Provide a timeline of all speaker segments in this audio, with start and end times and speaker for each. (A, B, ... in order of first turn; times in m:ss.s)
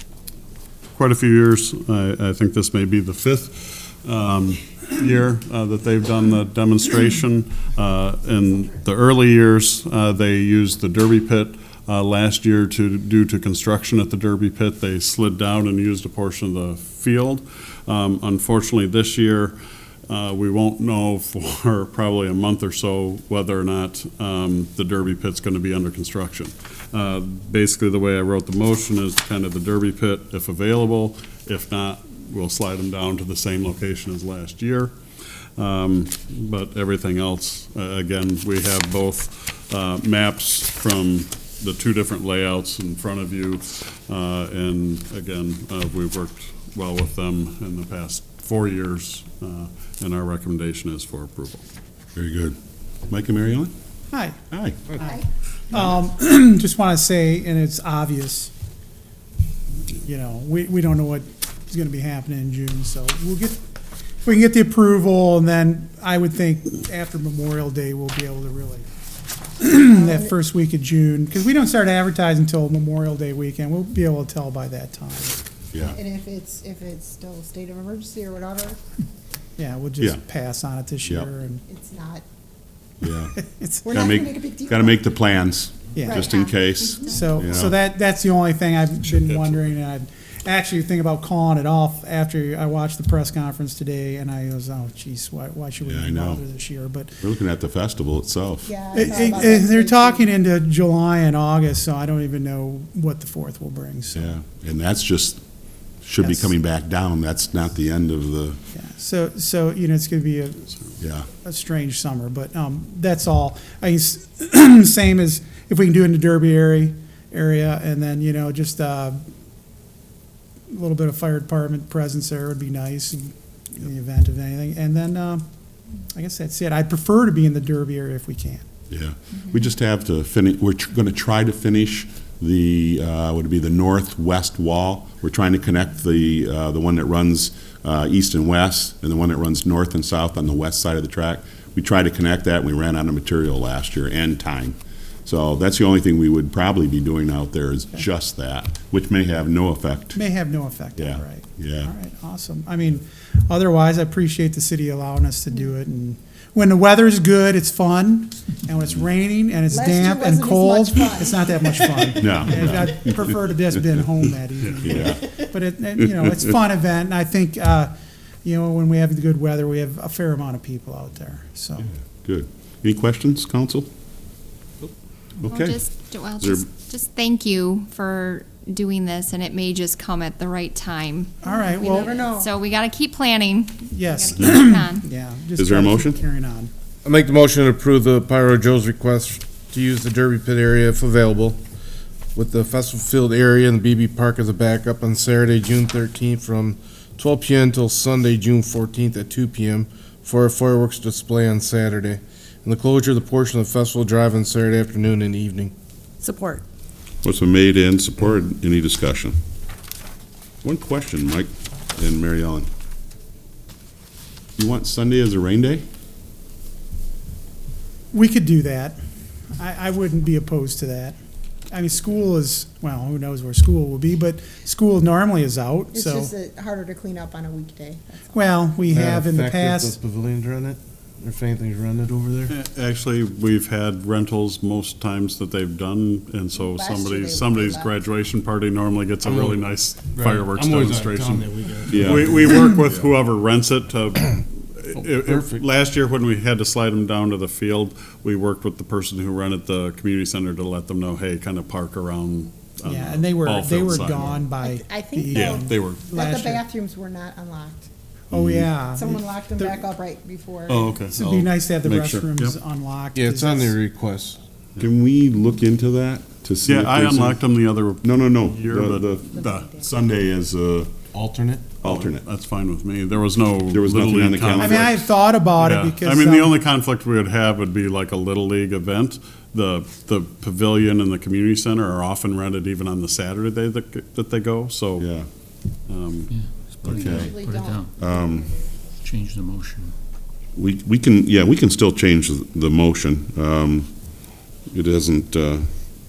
0:01.0-0:19.6 A
0:20.1-0:34.9 A
0:35.6-0:51.6 A
0:52.1-0:52.6 B
0:53.1-0:53.7 B
0:54.1-0:54.4 C
0:54.5-0:54.8 B
0:54.9-0:58.5 C
0:55.0-0:55.2 D
1:00.0-1:03.6 C
1:04.2-1:08.9 C
1:09.6-1:15.4 C
1:09.9-1:10.3 D
1:15.7-1:16.0 B
1:15.8-1:18.8 D
1:19.6-1:21.6 C
1:21.0-1:21.3 B
1:21.7-1:22.2 D
1:23.0-1:23.3 B
1:23.3-1:23.9 C
1:23.8-1:25.0 D
1:23.8-1:27.8 B
1:25.9-1:26.3 C
1:26.0-1:26.9 D
1:27.0-1:37.2 C
1:35.8-1:36.4 B
1:37.2-1:39.0 B
1:38.6-1:40.2 D
1:38.9-1:44.3 C
1:44.1-1:45.4 B
1:46.0-1:48.6 B
1:46.2-1:46.5 C
1:48.7-1:59.2 C
1:51.0-1:51.3 B
2:00.7-2:05.4 C
2:06.0-2:08.6 C
2:08.9-2:30.2 B
2:30.1-2:47.9 C
2:31.0-2:31.9 B
2:39.7-2:42.3 D
2:42.2-2:43.5 B
2:44.8-2:45.2 B
2:48.4-2:51.9 C
2:52.2-2:53.9 B
2:55.4-2:55.8 B
2:55.4-3:05.0 E
2:56.4-2:56.7 B
3:01.4-3:02.2 C
3:01.5-3:02.5 D
3:03.9-3:06.7 C
3:05.6-3:06.2 B
3:07.0-3:11.6 F
3:12.3-3:25.7 F
3:26.2-3:26.6 D
3:27.2-3:29.4 B
3:30.6-3:32.7 B
3:34.6-3:35.8 B
3:38.1-3:39.0 C
3:39.5-3:41.2 C
3:41.7-3:46.3 C
3:45.9-3:48.5 D
3:48.3-3:50.0 C
3:48.8-3:52.5 F
3:52.5-4:14.4 A
3:56.5-3:58.1 D
3:59.2-3:59.6 F
4:00.2-4:01.4 F
4:01.9-4:02.4 B
4:05.0-4:05.6 F
4:12.8-4:16.6 C
4:14.6-4:17.9 D
4:15.3-4:16.0 A
4:18.3-4:18.7 B
4:18.3-4:19.8 C
4:18.9-4:21.0 D
4:20.7-4:22.5 A
4:21.1-4:23.8 C
4:23.1-4:24.4 F
4:24.8-4:27.4 B
4:26.6-4:29.8 A
4:28.0-4:30.9 B
4:29.3-4:29.9 D
4:31.1-4:31.7 F
4:31.8-4:32.2 B
4:31.8-4:35.0 A
4:33.7-4:34.9 B
4:34.6-4:36.6 C
4:35.6-4:45.1 A
4:45.0-4:45.2 B
4:45.9-4:46.3 A
4:46.3-4:47.9 G
4:46.8-4:47.3 B
4:46.8-4:49.1 D
4:48.0-4:48.5 B
4:49.0-4:49.9 G
4:50.5-4:54.1 B
4:54.6-4:55.7 B